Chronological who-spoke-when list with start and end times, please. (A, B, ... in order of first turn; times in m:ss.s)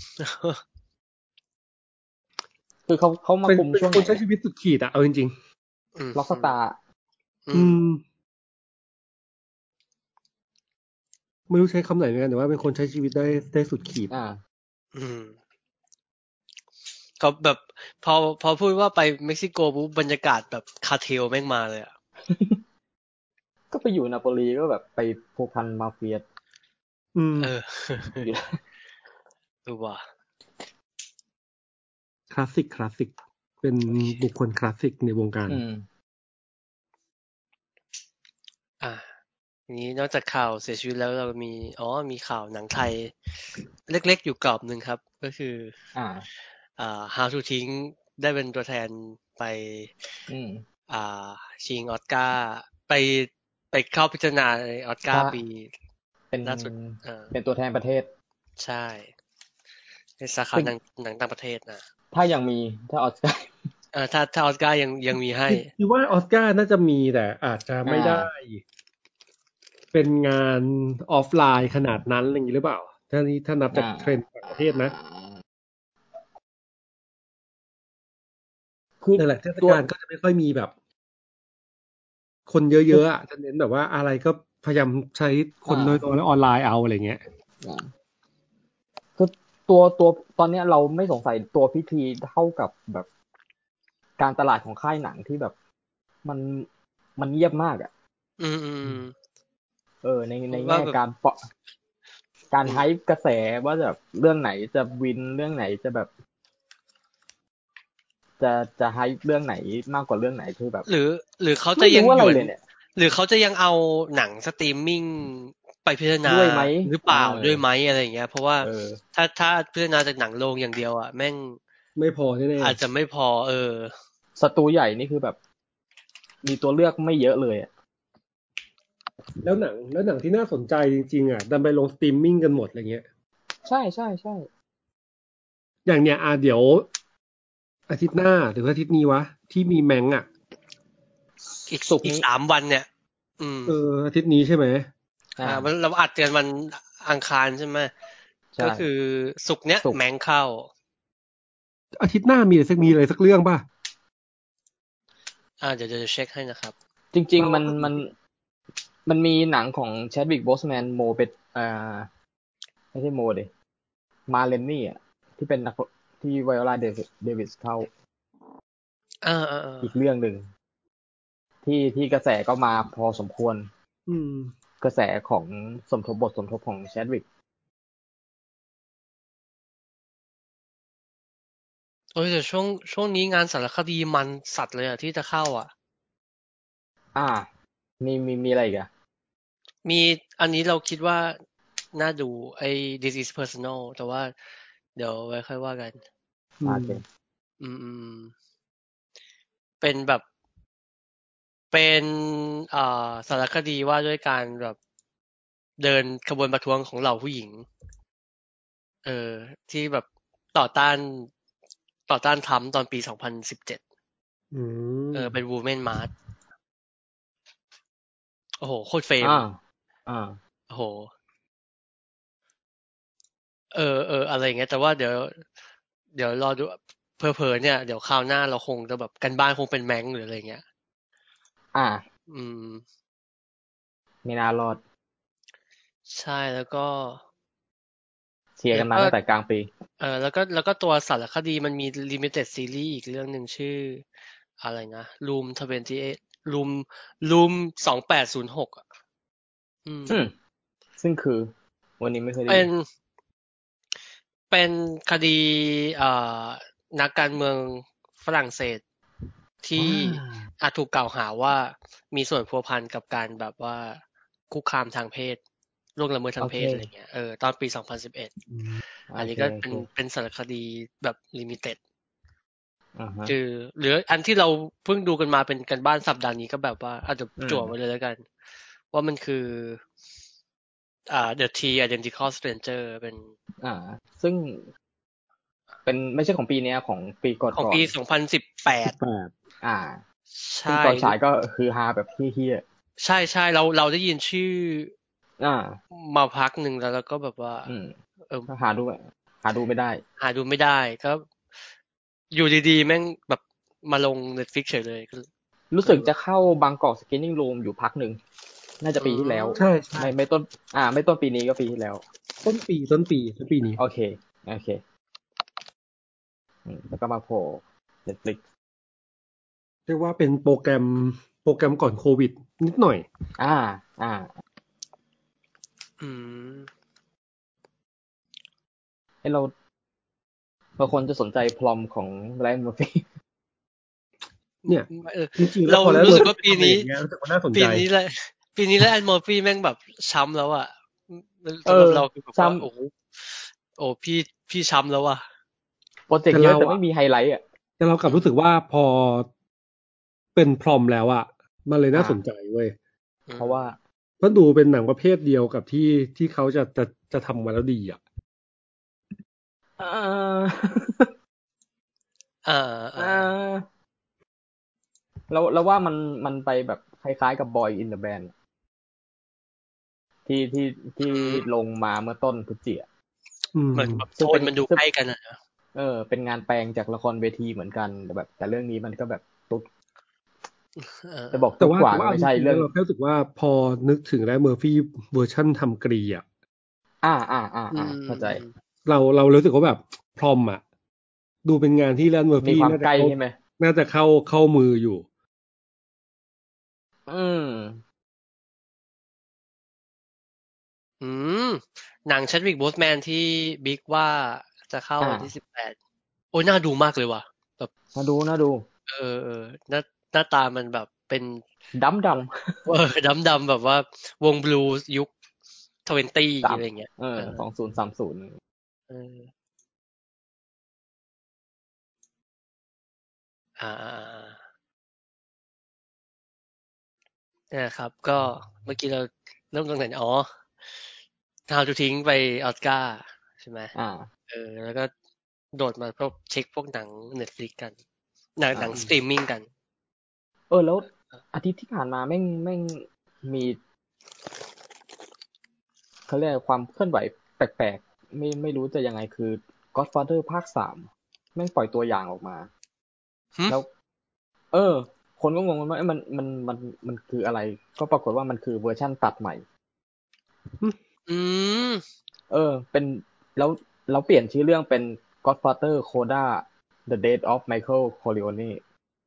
0:00.2-0:00.6 A
0:02.9-0:04.2 B
0:03.4-0:05.3 C
0:06.0-0:06.5 A
0:06.1-0:06.8 B
0:07.5-0:07.7 A
0:07.5-0:08.0 C
0:11.5-0:14.1 C
0:14.1-0:14.4 B
0:14.9-0:15.3 A
0:17.2-0:21.9 A
0:22.2-0:22.6 B
0:23.7-0:26.2 B
0:27.1-0:27.5 C
0:27.4-0:28.3 A
0:28.2-0:28.5 B
0:29.6-0:30.0 A
0:32.3-0:35.6 C
0:33.9-0:34.2 A
0:35.5-0:35.8 B
0:39.7-0:43.1 A
0:43.8-0:45.7 A
0:45.9-0:46.3 B
0:46.8-0:49.9 A
0:50.3-0:50.6 B
0:50.9-0:55.7 A
0:55.1-0:55.4 B
0:56.3-0:58.1 B
0:56.4-0:57.3 A
0:58.6-0:59.1 A
1:00.2-1:01.8 A
1:02.1-1:03.7 B
1:03.9-1:05.7 A
1:05.5-1:08.6 C
1:07.8-1:08.3 B
1:09.9-1:14.9 C
1:13.7-1:15.4 B
1:19.0-1:19.8 B
1:19.2-1:20.7 C
1:22.5-1:27.2 C
1:25.7-1:26.0 B
1:27.6-1:27.9 B
1:29.2-1:33.1 B
1:34.2-1:35.5 B
1:36.2-1:37.9 B
1:38.4-1:39.1 A
1:40.0-1:41.4 B
1:40.5-1:41.0 A
1:42.5-1:46.1 B
1:48.4-1:50.9 B
1:50.9-2:01.6 A
1:51.8-1:52.6 B
1:56.2-1:57.6 B
1:58.6-1:59.0 B
2:02.0-2:02.8 C
2:02.6-2:03.9 A
2:04.4-2:05.4 B
2:06.4-2:07.7 B
2:09.4-2:13.0 C
2:13.6-2:14.5 B
2:15.8-2:16.8 C
2:17.9-2:20.3 C
2:21.7-2:22.9 A
2:21.8-2:22.2 B
2:23.4-2:23.8 A
2:23.7-2:24.9 C
2:25.4-2:25.7 B
2:25.4-2:27.9 A
2:28.5-2:28.9 B
2:28.6-2:30.7 A
2:32.0-2:33.7 C
2:35.6-2:36.7 A
2:37.1-2:38.1 B
2:37.4-2:38.0 C
2:39.0-2:42.1 B
2:42.9-2:43.5 B
2:44.3-2:47.9 B
2:49.2-2:49.9 A
2:49.8-2:50.5 B
2:51.6-2:53.7 B
2:54.1-2:54.5 C
2:54.8-2:57.2 B
3:02.1-3:05.7 A
3:07.1-3:07.5 B
3:08.0-3:08.9 B
3:09.8-3:11.4 A
3:11.9-3:14.3 A
3:14.9-3:16.0 A
3:16.6-3:17.0 C
3:16.6-3:17.0 B
3:17.6-3:18.3 A
3:19.8-3:20.2 A
3:21.7-3:24.8 A
3:25.8-3:27.7 A
3:29.0-3:31.3 A
3:32.1-3:33.8 A
3:34.5-3:35.4 C
3:35.1-3:36.1 A
3:38.6-3:39.4 A
3:39.2-3:40.4 B
3:40.7-3:41.1 A
3:43.7-3:45.4 A
3:46.1-3:50.6 A
3:51.7-3:52.0 B
3:52.3-3:52.8 A
3:54.2-3:54.8 B
3:56.1-3:57.2 A
3:58.6-3:59.7 B
3:58.7-3:59.1 A
4:00.0-4:04.0 A
4:04.6-4:08.8 A
4:09.8-4:10.2 A
4:10.1-4:10.3 B
4:11.0-4:12.7 B
4:12.5-4:12.9 A
4:14.5-4:18.8 A
4:19.6-4:25.4 A
4:19.8-4:20.5 B
4:26.0-4:28.3 A
4:26.4-4:26.9 B
4:28.5-4:28.8 C
4:29.1-4:29.9 B
4:29.2-4:31.8 A
4:33.0-4:33.3 B
4:33.3-4:38.2 A
4:37.4-4:37.7 B
4:38.9-4:39.8 A
4:41.1-4:43.3 A
4:43.6-4:44.7 B
4:45.8-4:47.9 B
4:47.5-4:49.0 A
4:48.8-4:49.3 C
4:49.6-4:50.0 B
4:50.3-4:51.2 A
4:50.6-4:52.6 B
4:53.0-4:54.9 A
4:55.4-4:55.8 B
4:55.9-4:57.7 A
4:57.7-4:57.9 B
4:58.5-5:00.0 B
5:00.2-5:01.2 A
5:02.3-5:05.3 A
5:05.7-5:08.2 B
5:05.8-5:06.1 A
5:08.8-5:12.0 B
5:09.0-5:09.6 A
5:09.6-5:10.1 C
5:12.4-5:13.8 C
5:13.8-5:14.8 B
5:16.6-5:18.4 B
5:19.9-5:23.0 C
5:23.4-5:24.3 B
5:26.0-5:26.7 A
5:29.2-5:29.5 B
5:30.8-5:33.0 B
5:34.6-5:36.9 A
5:34.7-5:37.8 C
5:37.5-5:45.2 A
5:41.6-5:42.7 B
5:46.1-5:47.4 B
5:46.3-5:46.8 C
5:47.8-5:49.3 C
5:50.3-5:52.7 C
5:51.9-5:52.2 B
5:53.3-5:53.7 A
5:53.4-5:53.8 B
5:54.2-5:58.0 C
5:59.8-6:01.1 B
6:02.4-6:03.3 A
6:03.0-6:03.6 B
6:05.3-6:08.3 B
6:10.2-6:12.9 B
6:11.0-6:11.4 A
6:13.5-6:14.0 C
6:13.7-6:15.4 A
6:14.2-6:14.8 B
6:15.7-6:19.7 B
6:20.8-6:21.5 A
6:21.3-6:22.7 B
6:21.6-6:26.2 C
6:27.0-6:28.4 B
6:27.7-6:28.5 A
6:28.8-6:30.6 C
6:31.4-6:35.0 C
6:32.4-6:33.4 B
6:37.1-6:37.8 B
6:41.0-6:45.7 A
6:45.0-6:45.3 B
6:46.3-6:47.7 A
6:47.9-6:48.6 B
6:48.9-6:51.4 A
6:51.7-6:52.6 B
6:52.6-6:55.1 A
6:55.8-6:57.4 A
6:56.4-6:58.4 B
6:58.9-6:59.3 A
7:03.6-7:04.4 A
7:07.5-7:10.3 A
7:11.5-7:13.7 A
7:13.7-7:14.1 B
7:14.3-7:14.9 A
7:15.5-7:17.7 A
7:18.4-7:19.4 A
7:18.5-7:18.8 B
7:20.5-7:23.6 B
7:26.1-7:32.5 B
7:34.5-7:39.4 B
7:41.1-7:41.8 A
7:42.3-7:48.6 B